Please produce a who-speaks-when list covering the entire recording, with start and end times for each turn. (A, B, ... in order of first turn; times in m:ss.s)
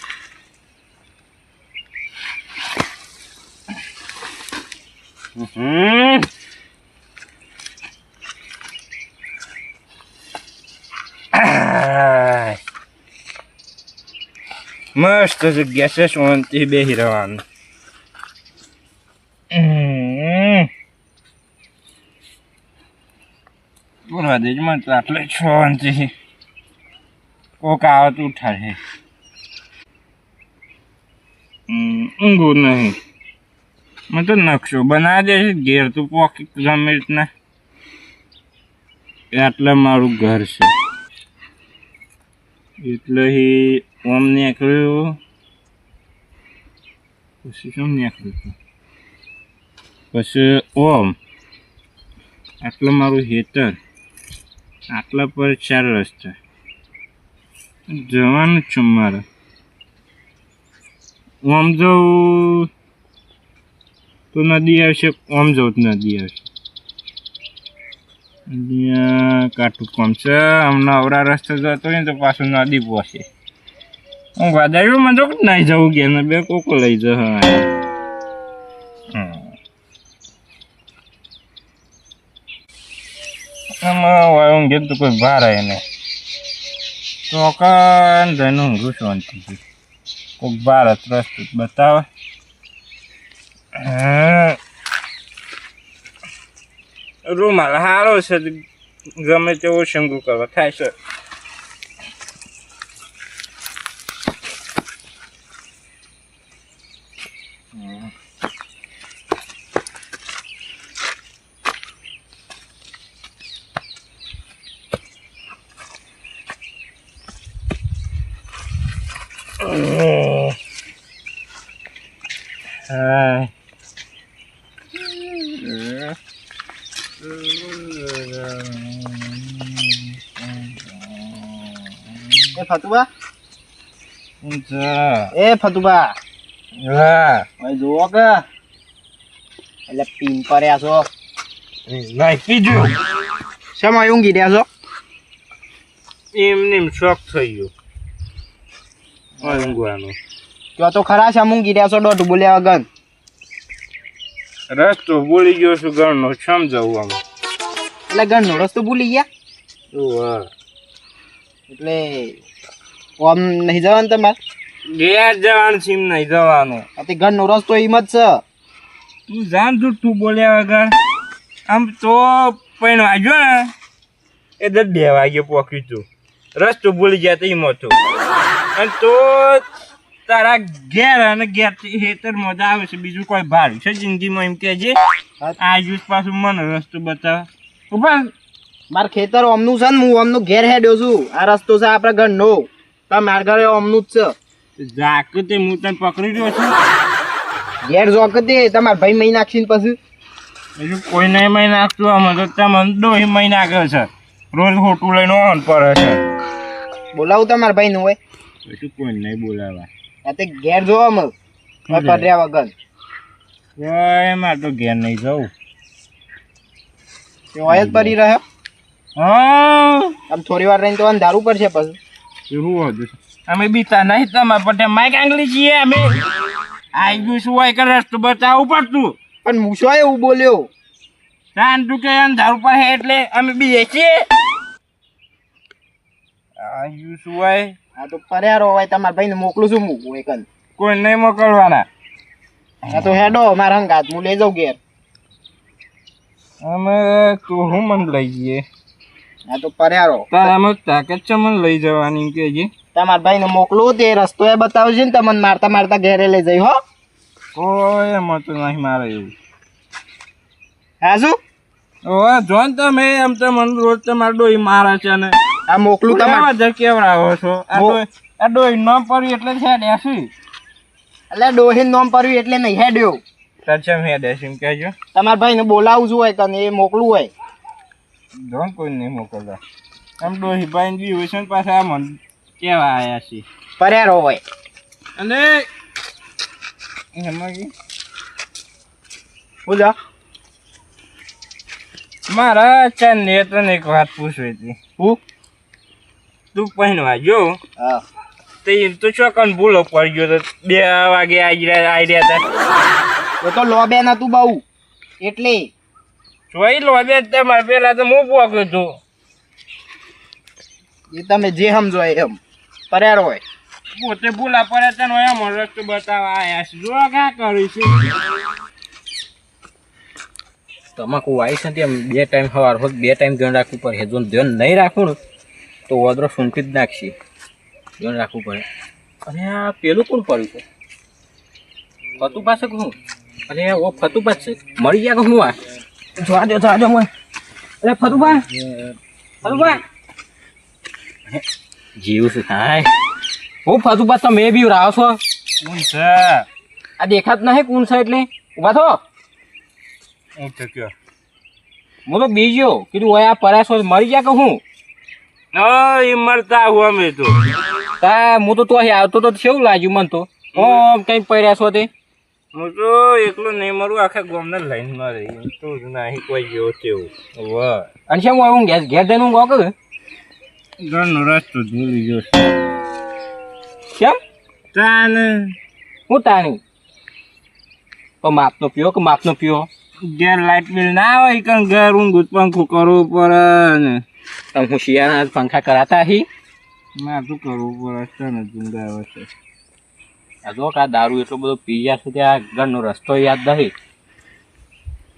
0:05.4-0:06.3 A
0:11.3-0:12.6 A
0:15.0-0:17.4 A
0:19.5-0:20.7 A
0:24.1-0:26.1 A
0:27.6-0:28.8 A
0:31.7-0:33.0 A
0:34.1-0:37.3 A
0:39.3-0:40.7 A
0:42.8-0:45.2 A
0:47.4-0:48.6 A
0:50.1-0:51.2 A
0:52.6-0:53.8 A
0:54.9-0:56.4 A
0:57.9-0:59.2 A
1:01.4-1:02.7 A
1:04.3-1:06.5 A
1:08.5-1:13.2 A
1:14.4-1:17.7 A
1:19.1-1:19.5 A
1:23.8-1:25.8 A
1:27.3-1:29.6 A
1:30.4-1:32.1 A
1:33.8-1:34.6 A
1:37.2-1:38.6 A
1:39.2-1:40.9 A
1:47.7-1:48.1 A
1:59.6-2:00.6 A
2:02.9-2:03.5 A
2:05.0-2:06.2 A
2:07.2-2:12.6 A
2:12.6-2:13.1 B
2:14.4-2:15.3 A
2:15.3-2:16.2 B
2:16.8-2:17.5 A
2:17.6-2:18.4 B
2:19.9-2:21.1 B
2:21.9-2:23.0 A
2:23.8-2:24.7 B
2:26.3-2:27.7 A
2:29.4-2:29.8 B
2:29.4-2:30.2 A
2:30.8-2:32.9 B
2:34.7-2:37.2 A
2:38.1-2:39.3 B
2:39.9-2:40.5 A
2:41.7-2:42.4 B
2:43.2-2:44.4 B
2:44.9-2:46.9 A
2:47.0-2:48.4 B
2:49.3-2:51.0 A
2:51.7-2:53.7 A
2:54.6-2:58.0 A
2:58.8-2:59.6 A
3:00.3-3:05.0 A
3:05.6-3:08.3 A
3:08.9-3:14.4 B
3:14.8-3:16.8 A
3:17.8-3:20.0 B
3:20.8-3:26.2 A
3:27.1-3:28.2 B
3:28.6-3:29.9 A
3:30.2-3:31.3 B
3:31.9-3:32.3 A
3:31.9-3:32.7 B
3:33.8-3:35.5 A
3:37.5-3:38.4 B
3:37.7-3:38.1 A
3:39.2-3:40.1 A
3:40.3-3:42.0 B
3:42.5-3:46.2 A
3:46.9-3:49.2 A
3:49.4-3:50.7 B
3:51.6-3:54.3 A
3:56.6-3:57.8 A
3:58.0-4:00.5 B
4:00.8-4:01.9 A
4:02.9-4:04.8 B
4:06.6-4:08.7 A
4:09.5-4:10.5 B
4:10.3-4:12.7 A
4:12.9-4:16.8 B
4:17.6-4:19.3 A
4:21.0-4:21.4 B
4:22.0-4:25.4 A
4:25.7-4:26.5 B
4:26.1-4:30.3 A
4:27.7-4:28.0 B
4:31.3-4:33.2 B
4:33.6-4:35.0 A
4:35.1-4:37.3 B
4:38.3-4:39.6 A
4:40.2-4:43.5 A
4:43.8-4:44.4 B
4:45.2-4:45.7 A
4:47.2-4:47.7 A
4:49.7-4:50.0 B
4:52.3-4:54.8 A
4:56.5-4:57.6 A
4:57.8-4:58.0 B
4:58.6-5:02.5 A
5:03.4-5:04.6 B
5:05.2-5:05.7 B
5:06.5-5:09.0 A
5:11.1-5:13.4 B
5:13.9-5:18.0 A
5:21.0-5:25.2 C
5:25.9-5:27.2 C
5:28.0-5:28.6 C
5:29.2-5:30.6 C
5:32.2-5:33.0 C
5:33.5-5:35.6 C
5:36.2-5:37.1 C
5:37.8-5:38.5 C
5:39.4-5:39.8 C
5:42.0-5:42.9 C
5:43.6-5:45.2 C
5:45.6-5:46.5 A
5:47.0-5:49.0 C
5:50.4-5:50.9 A
5:52.0-5:54.6 C
5:55.5-5:57.4 A
5:58.0-6:01.9 C
6:00.5-6:00.9 A
6:02.5-6:07.9 A
6:08.1-6:09.8 C
6:10.8-6:12.5 A
6:14.7-6:15.6 A
6:16.1-6:16.6 C
6:18.2-6:19.7 C
6:20.0-6:24.0 A
6:24.5-6:26.3 C
6:27.0-6:29.3 A
6:30.4-6:33.7 C